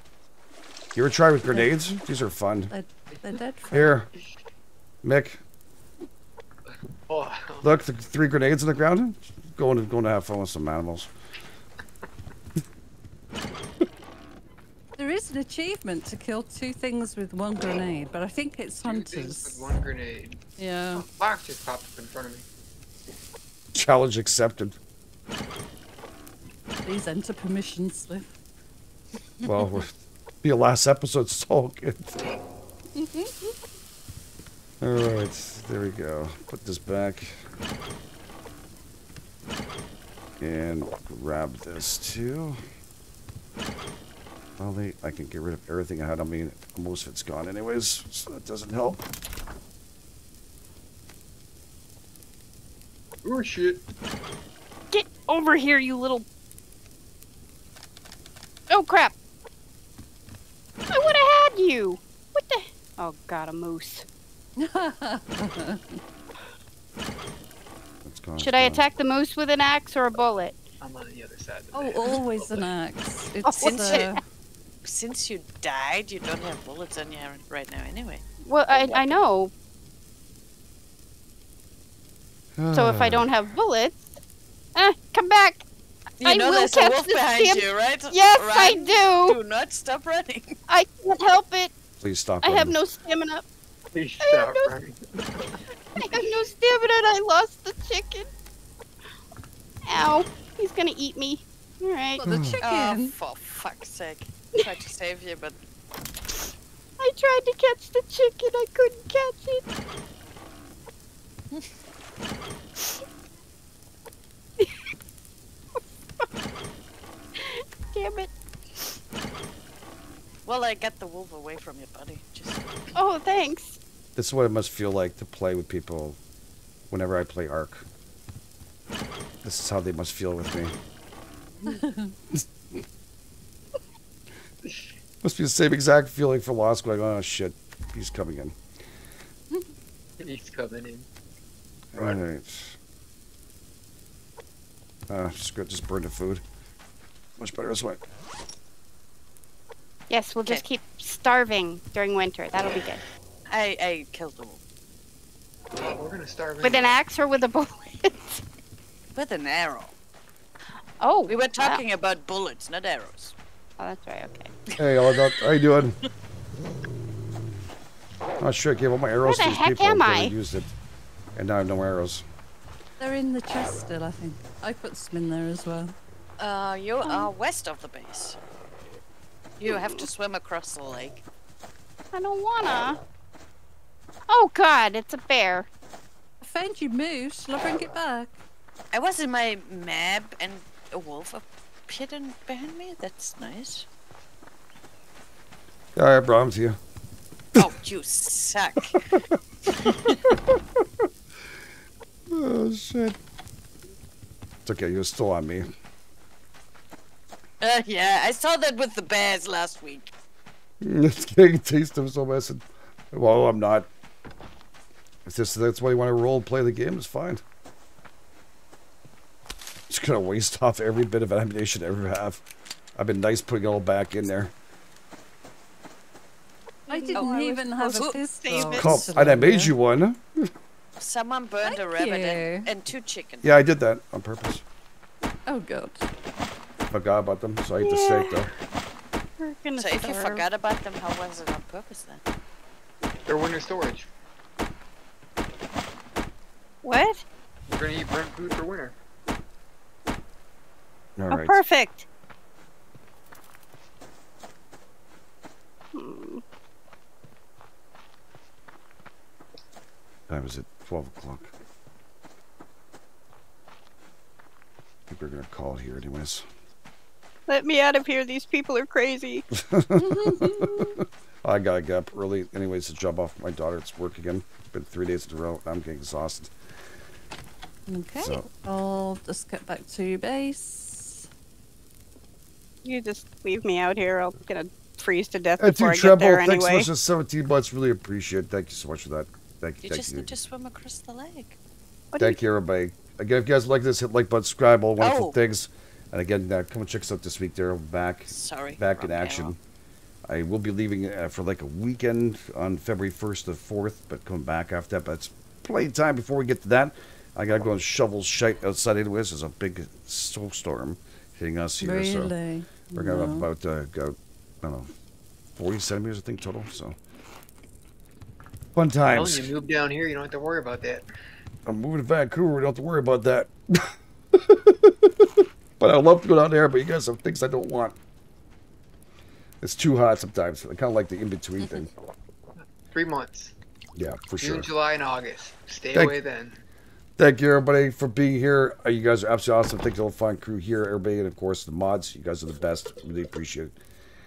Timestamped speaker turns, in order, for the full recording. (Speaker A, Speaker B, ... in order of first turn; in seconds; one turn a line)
Speaker A: 0.9-2.7
Speaker B: 2.7-4.0
Speaker A: 3.7-4.1
Speaker A: 5.0-5.4
Speaker C: 7.1-7.7
Speaker A: 7.6-11.1
Speaker B: 15.0-19.8
Speaker C: 18.8-20.4
Speaker B: 20.6-21.1
Speaker C: 20.9-22.5
Speaker A: 23.7-24.8
Speaker B: 26.8-28.3
Speaker A: 29.4-32.2
Speaker B: 33.0-33.3
Speaker A: 34.8-37.4
Speaker A: 40.4-42.6
Speaker A: 44.6-49.0
Speaker C: 53.2-53.8
Speaker D: 54.9-56.3
Speaker D: 58.7-59.1
Speaker D: 60.9-64.1
Speaker B: 64.6-66.0
Speaker A: 68.0-68.8
Speaker D: 68.4-70.6
Speaker C: 70.8-72.7
Speaker B: 71.7-74.2
Speaker D: 73.5-74.1
Speaker E: 73.5-74.2
Speaker E: 74.8-78.2
Speaker D: 78.5-79.5
Speaker E: 78.7-79.0
Speaker A: 82.6-83.3
Speaker D: 82.7-84.2
Speaker D: 84.8-85.7
Speaker E: 86.2-90.6
Speaker D: 86.2-89.4
Speaker D: 90.7-91.7
Speaker A: 92.0-92.8
Speaker D: 92.4-93.5
Speaker C: 93.9-96.3
Speaker D: 94.2-94.7
Speaker D: 96.0-98.3
Speaker D: 99.9-102.3
Speaker B: 102.2-103.1
Speaker A: 102.2-102.6
Speaker E: 102.6-105.6
Speaker D: 107.0-109.7
Speaker D: 117.4-118.3
Speaker E: 120.5-122.9
Speaker D: 123.0-123.8
Speaker A: 124.2-126.2
Speaker A: 126.9-127.9
Speaker A: 129.4-130.8
Speaker B: 131.7-132.2
Speaker A: 132.3-132.8
Speaker A: 135.2-138.6
Speaker C: 140.2-141.1
Speaker A: 141.9-142.8
Speaker C: 141.9-142.2
Speaker A: 145.1-146.4
Speaker A: 147.4-148.0
Speaker D: 150.1-153.0
Speaker E: 153.5-154.6
Speaker C: 155.8-157.0
Speaker D: 156.6-158.4
Speaker E: 159.2-159.9
Speaker D: 161.0-161.8
Speaker E: 161.3-163.3
Speaker D: 163.8-164.5
Speaker A: 164.8-166.0
Speaker A: 168.4-170.7
Speaker D: 169.3-170.3
Speaker A: 171.4-172.2
Speaker B: 173.0-176.0
Speaker E: 176.4-178.4
Speaker E: 179.6-181.2
Speaker D: 179.7-180.1
Speaker D: 182.1-183.0
Speaker D: 184.3-185.7
Speaker B: 186.4-188.4
Speaker E: 188.9-193.9
Speaker A: 195.9-196.8
Speaker E: 197.6-199.0
Speaker A: 199.2-201.1
Speaker E: 199.8-200.2
Speaker A: 202.3-203.2
Speaker A: 204.7-205.7
Speaker E: 207.6-210.1
Speaker A: 210.8-213.9
Speaker A: 215.3-217.4
Speaker A: 219.9-222.4
Speaker A: 223.0-224.5
Speaker D: 226.9-227.5
Speaker B: 226.9-229.8
Speaker E: 227.2-229.0
Speaker D: 228.4-228.8
Speaker A: 228.7-230.5
Speaker E: 231.0-233.5
Speaker B: 231.6-232.7
Speaker A: 233.4-234.6
Speaker B: 235.5-236.1
Speaker A: 236.9-238.5
Speaker D: 237.8-238.5
Speaker D: 239.4-240.4
Speaker E: 239.8-242.2
Speaker C: 243.3-244.1
Speaker D: 246.8-247.2
Speaker C: 247.7-249.0
Speaker A: 251.2-251.6
Speaker D: 251.3-252.1
Speaker D: 255.9-256.4
Speaker A: 260.3-261.5
Speaker A: 265.1-266.4
Speaker D: 267.5-269.5
Speaker A: 269.5-276.6
Speaker B: 269.9-271.0
Speaker B: 277.9-281.3
Speaker D: 282.8-286.9
Speaker A: 285.6-290.3
Speaker E: 289.8-291.6
Speaker D: 292.1-292.4
Speaker A: 292.2-299.6
Speaker E: 295.0-295.4
Speaker E: 298.3-299.5
Speaker A: 300.3-312.3
Speaker B: 311.8-313.5
Speaker A: 312.9-314.9
Speaker A: 315.6-317.0
Speaker A: 318.8-319.5
Speaker C: 319.1-321.1
Speaker A: 321.7-328.0
Speaker A: 329.6-331.9
Speaker C: 332.6-333.5
Speaker A: 334.0-334.7
Speaker C: 334.4-336.6
Speaker A: 337.2-343.8